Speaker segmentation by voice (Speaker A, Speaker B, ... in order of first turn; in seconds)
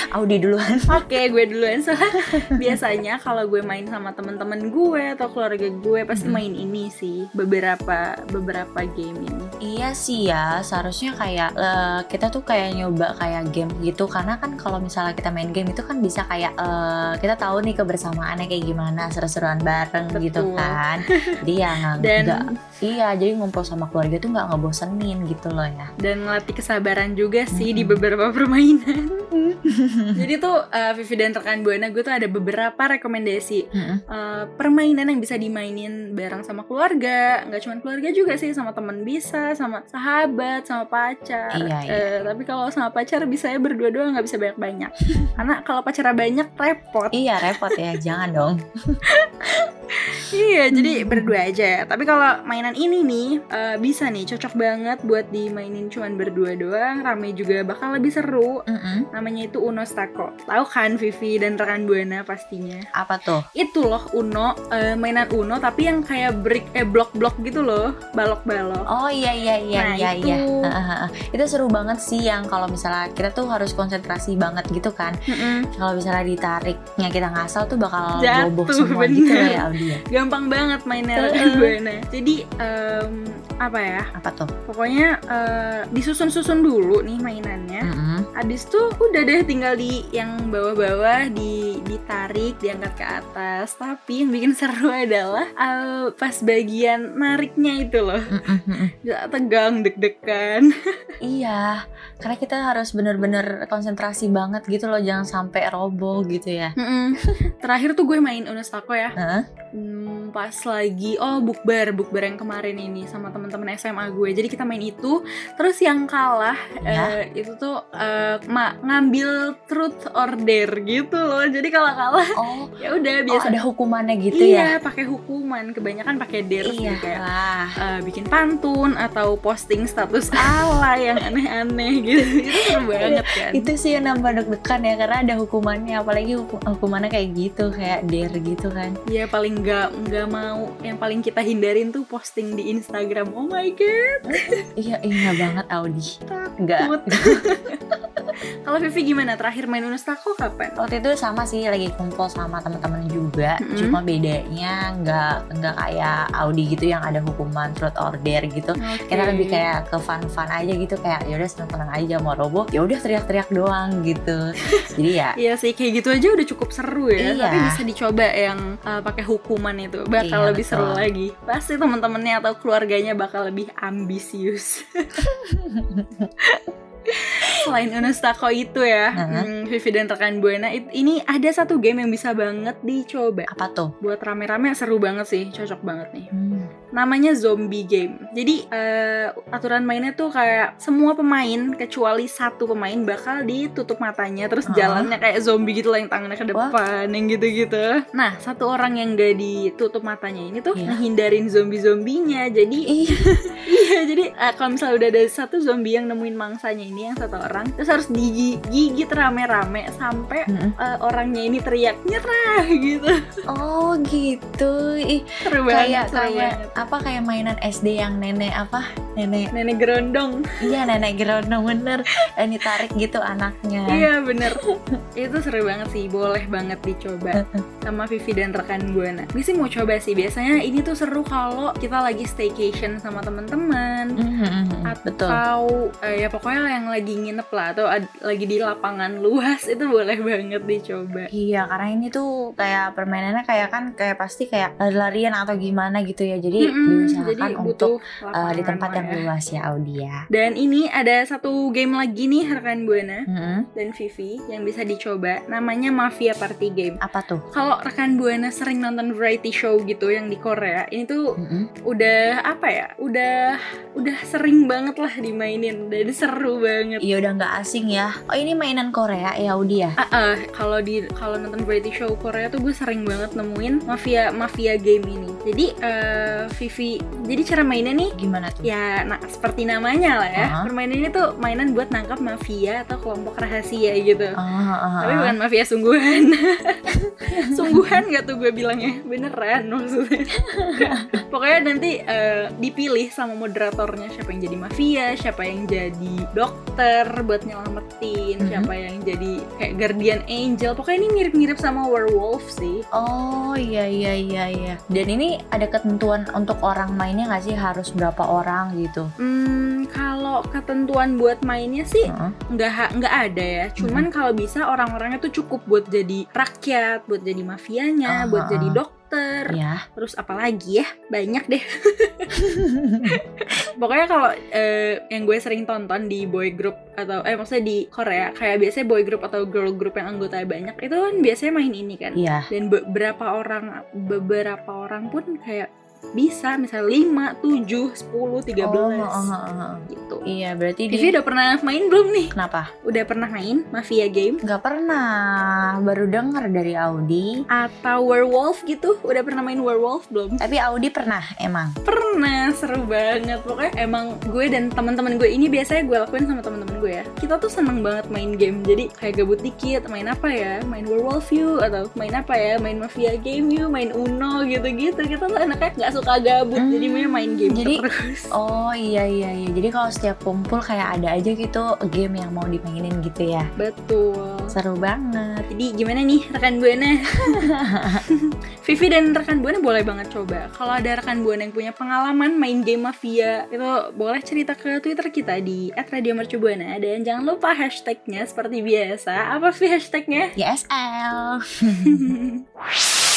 Speaker A: 0.1-1.1, 2.3-2.8, 6.1-6.4, 9.6-25.9, 27.5-28.0, 29.4-30.3, 33.8-34.0, 41.5-42.1, 47.1-49.0, 50.7-51.4, 58.7-59.1, 63.0-63.5, 68.9-75.1, 75.7-80.0, 81.2-81.8, 84.2-84.5, 87.8-88.3, 98.3-98.9, 101.3-106.7, 109.2-109.4, 116.8-117.1, 122.4-122.7, 123.3-124.7, 126.6-127.7, 130.4-130.7, 132.6-139.0, 144.3-147.4, 150.8-164.4, 164.9-165.4, 167.2-167.8, 170.2-171.1, 175.2-176.3, 179.2-179.5, 183.5-183.9, 186.3-186.7, 194.7-195.2, 202.9-203.5, 213.5-219.5, 220.6-224.6, 227.3-227.6, 234.2-235.4, 241.3-250.2, 253.3-253.7, 257.0-257.4, 261.4-261.7, 267.0-269.9, 278.2-278.7, 280.4-280.7, 284.4-285.4, 287.3-288.0, 290.8-291.2, 298.4-298.7, 303.0-309.1, 312.1-312.3, 313.8-314.1, 318.1-318.8, 319.5-319.8, 322.4-323.2, 332.1-332.5, 338.6-341.2, 342.3-342.7, 344.5-347.3, 350.4-351.7, 366.6-367.9, 368.4-373.4, 374.5-375.5, 377.3-378.0, 390.4-392.1
Speaker B: 0.9-9.5, 20.1-21.4, 22.0-22.6, 26.0-29.2, 30.1-47.8, 49.1-58.6, 59.1-62.9, 63.5-68.9, 69.8-70.5, 75.3-75.7, 78.2-84.1, 84.7-98.2, 99.0-100.7, 106.8-109.1, 109.8-123.6, 124.3-127.2, 127.8-133.7, 139.1-144.6, 146.8-147.8, 148.7-150.7, 153.6-154.0, 158.8-159.6, 164.8-175.2, 176.4-183.5, 184.0-186.3, 186.9-202.9, 203.7-213.2, 215.5-216.7, 219.5-220.4, 223.9-224.6, 225.2-234.2, 234.9-241.3, 246.6-249.3, 250.3-253.2, 253.8-257.0, 257.5-261.2, 261.9-267.0, 270.0-278.1, 278.6-284.4, 285.0-286.8, 287.3-302.8, 309.2-322.3, 323.8-339.3, 339.9-340.2, 340.9-342.3, 342.9-344.4, 347.5-350.4, 351.9-368.3, 373.6-374.5, 375.5-377.5, 378.6-390.3, 391.8-392.4